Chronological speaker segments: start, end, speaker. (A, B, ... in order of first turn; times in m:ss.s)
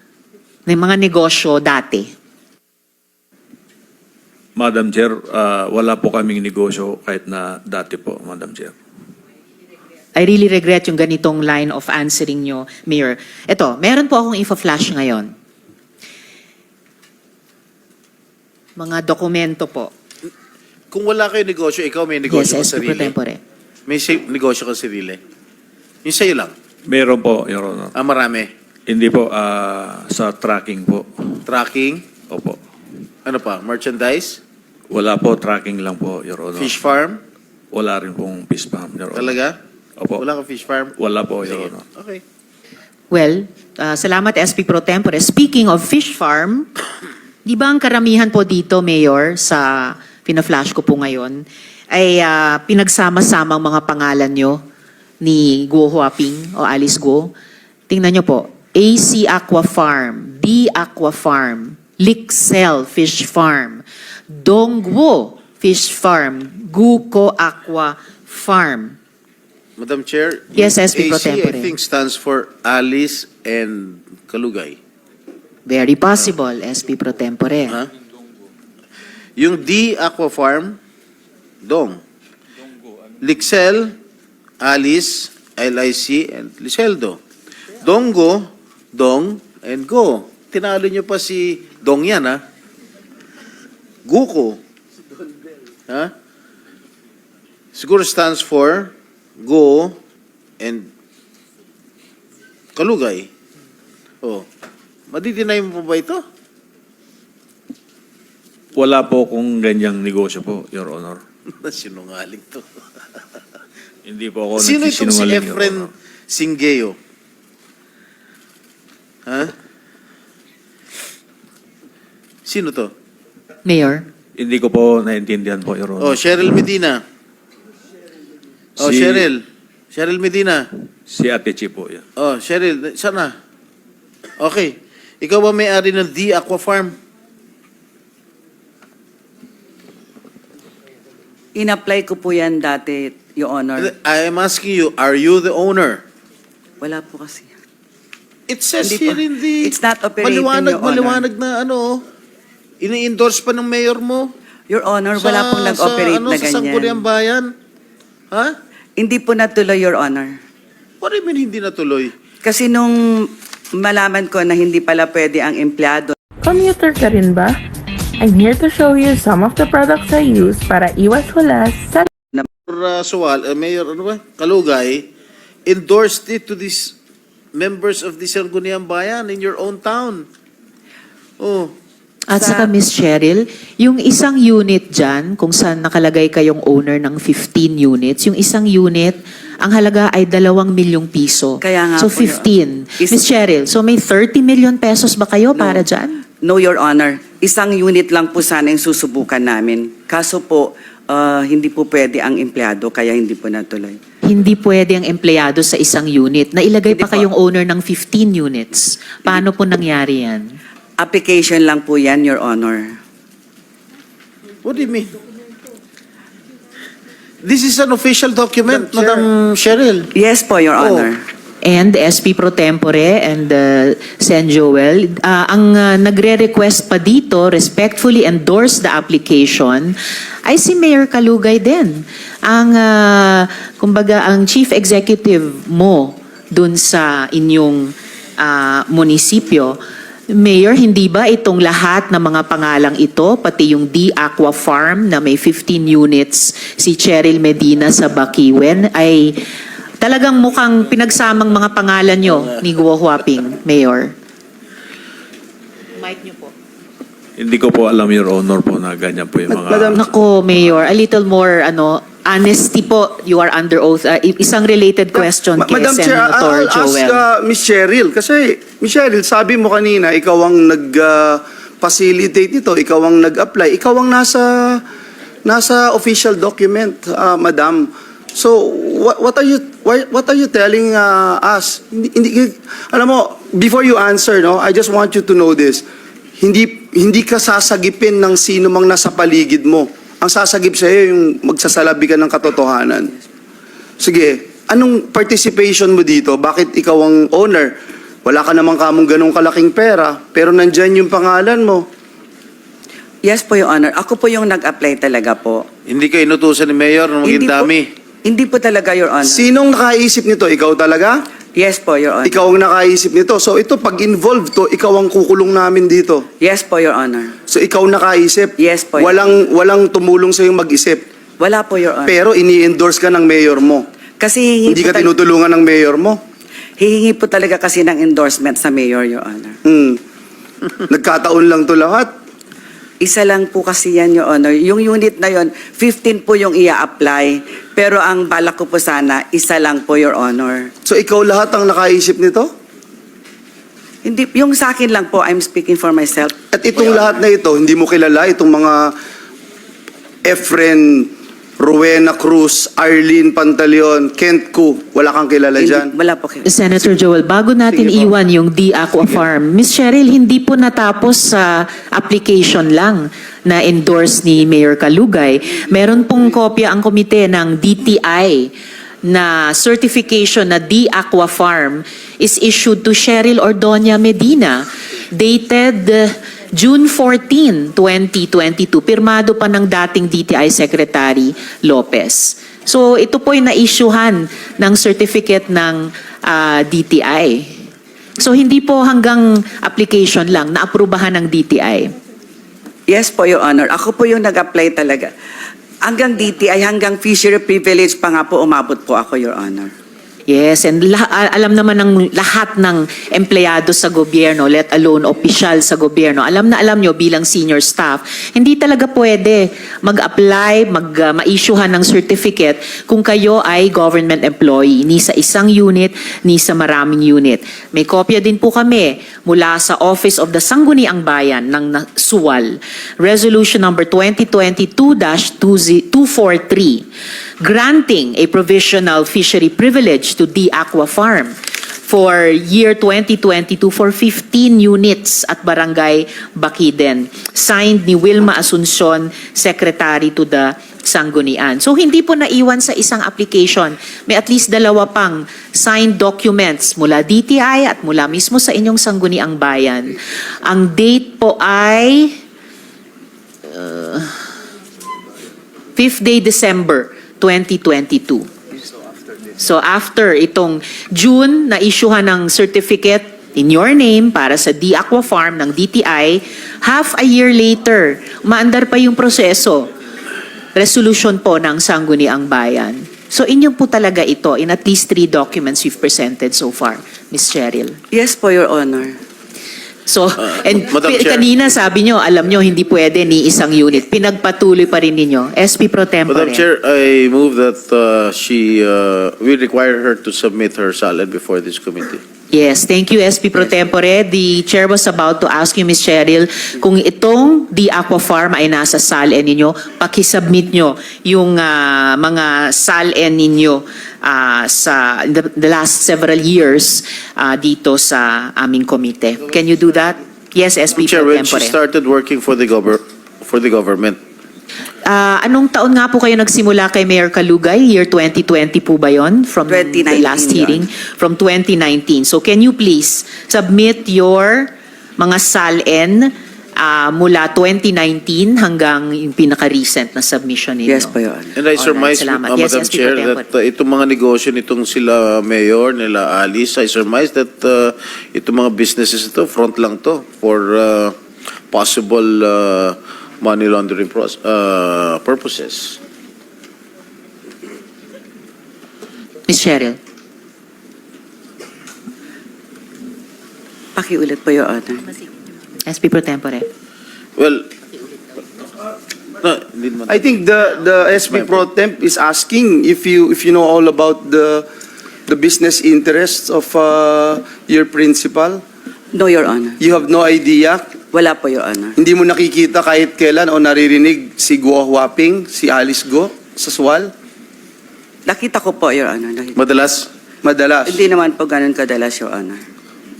0:00.6-0:02.1 A
0:04.6-0:08.7 B
0:10.1-0:15.3 A
0:18.8-0:19.9 A
0:20.9-0:23.1 C
0:22.3-0:23.4 A
0:23.9-0:25.2 C
0:26.0-0:26.5 C
0:26.8-0:27.9 B
0:27.9-0:28.5 C
0:28.9-0:31.4 B
0:31.4-0:32.1 C
0:32.2-0:32.6 B
0:33.2-0:34.4 C
0:34.9-0:36.9 B
0:36.5-0:37.2 C
0:37.7-0:39.4 B
0:39.1-0:39.6 C
0:40.0-0:40.3 B
0:40.2-0:42.2 C
0:41.0-0:41.8 B
0:43.1-0:46.7 A
0:47.4-0:54.6 A
0:55.2-0:57.3 A
0:57.9-1:09.0 A
1:09.8-1:14.8 C
1:10.5-1:11.7 A
1:15.7-1:17.8 A
1:19.4-1:20.8 C
1:21.6-1:22.0 C
1:23.2-1:24.0 C
1:24.6-1:27.2 C
1:27.8-1:32.4 C
1:34.0-1:34.6 C
1:37.7-1:40.0 C
1:40.6-1:40.9 C
1:42.7-1:43.3 C
1:45.1-1:46.2 C
1:48.7-1:51.2 B
1:51.5-1:53.4 C
1:54.0-1:55.9 B
1:54.6-1:57.0 C
1:59.3-1:59.5 C
2:02.4-2:02.9 C
2:03.6-2:04.0 A
2:04.4-2:06.6 B
2:06.0-2:07.0 C
2:08.8-2:09.3 B
2:08.8-2:10.7 C
2:11.1-2:12.0 B
2:12.2-2:13.4 C
2:14.4-2:17.0 C
2:21.5-2:23.9 D
2:23.8-2:26.0 C
2:26.8-2:27.5 D
2:28.5-2:32.0 C
2:28.8-2:31.3 D
2:32.8-2:34.3 C
2:34.7-2:37.0 D
2:35.2-2:37.5 C
2:38.3-2:38.6 C
2:39.0-2:40.4 D
2:41.0-2:42.1 C
2:42.4-2:46.2 D
2:46.4-2:47.6 E
2:48.2-2:52.1 E
2:52.7-2:55.1 C
2:55.6-2:56.9 C
2:57.5-3:00.3 C
3:01.4-3:01.7 C
3:02.3-3:16.2 A
3:02.3-3:02.7 D
3:11.6-3:12.5 D
3:15.5-3:15.8 D
3:16.4-3:24.0 D
3:24.2-3:30.6 A
3:26.9-3:27.3 D
3:31.0-3:32.9 D
3:34.6-3:35.2 C
3:37.4-3:40.1 C
3:38.8-3:39.1 F
3:40.1-3:41.2 D
3:40.8-3:41.1 C
3:41.6-3:59.8 A
4:00.3-4:09.3 A
4:10.0-4:14.1 A
4:16.0-4:16.5 A
4:17.4-4:20.0 B
4:19.5-4:20.0 F
4:19.9-4:27.2 A
4:25.1-4:34.8 F
4:35.4-4:45.8 F
4:46.4-4:53.1 F
4:54.0-4:57.7 F
4:58.2-5:01.8 F
5:03.2-5:05.6 D
5:05.8-5:07.9 C
5:07.2-5:07.7 D
5:08.2-5:09.5 D
5:09.2-5:11.2 F
5:11.6-5:12.4 D
5:12.2-5:16.2 F
5:16.4-5:17.3 D
5:17.5-5:21.0 F
5:18.6-5:19.4 D
5:21.4-5:22.2 D
5:22.0-5:23.8 F
5:24.2-5:25.1 D
5:24.7-5:26.2 F
5:26.8-5:29.6 D
5:29.6-5:30.0 F
5:30.9-5:32.1 F
5:33.0-5:40.7 D
5:40.8-5:42.5 F
5:44.0-5:46.4 D
5:46.5-5:48.9 F
5:50.2-5:55.9 F
5:55.6-5:56.5 D
5:56.4-6:08.5 A
5:57.8-5:58.1 F
6:09.1-6:27.5 A
6:28.2-6:31.9 A
6:32.9-6:35.1 D
6:35.8-6:39.7 D
6:40.3-7:06.8 A
7:07.4-7:11.3 A
7:11.8-7:32.1 A
7:33.5-7:34.2 A
7:35.8-7:38.3 A
7:39.4-7:49.7 A
7:50.6-7:57.8 A
7:57.9-7:58.9 D
7:59.9-8:06.4 A
8:00.7-8:01.2 C
8:06.1-8:12.0 C
8:12.3-8:31.6 A
8:30.7-8:34.0 C
8:34.9-8:50.9 A
8:39.5-8:40.7 D
8:50.6-8:51.3 D
8:51.4-9:01.0 C
8:51.5-8:53.2 A
9:01.5-9:05.8 C
9:09.3-9:09.8 A
9:13.8-9:14.9 D
9:15.6-9:16.5 A
9:17.2-9:17.5 C
9:19.2-9:20.1 C
9:19.9-9:24.4 F
9:21.0-9:21.4 C
9:25.1-9:28.4 F
9:28.9-9:29.6 D
9:29.6-9:30.6 F
9:30.9-9:31.8 D
9:31.8-9:36.9 F
9:38.1-9:39.4 D
9:39.4-9:39.9 C
9:40.2-9:40.8 F
9:40.6-9:42.4 D